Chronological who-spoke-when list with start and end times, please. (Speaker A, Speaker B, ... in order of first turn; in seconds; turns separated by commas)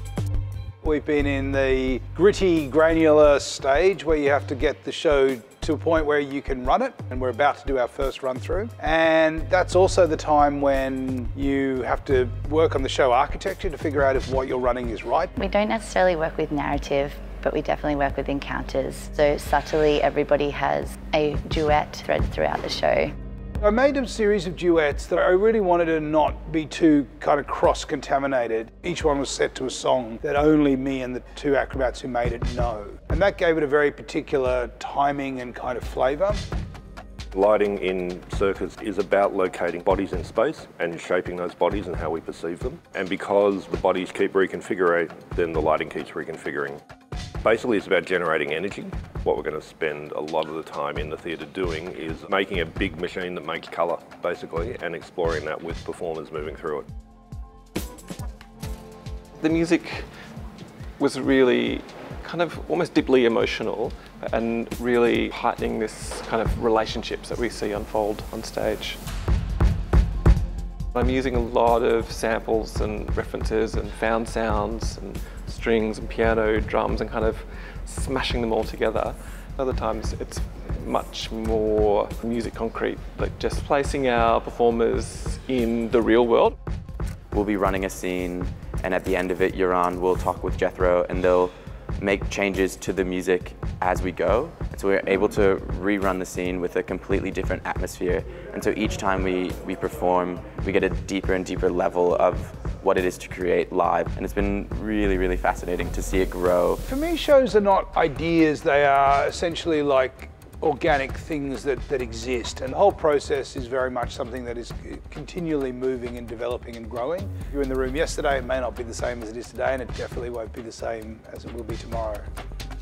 Speaker A: 0.8-15.3, Speaker B: 15.4-23.1, Speaker A: 23.6-36.4, Speaker C: 37.3-46.8, Speaker C: 47.4-56.9, Speaker D: 59.4-60.0, Speaker D: 61.0-69.0, Speaker D: 70.9-86.5, Speaker E: 87.3-106.8, Speaker A: 106.8-122.3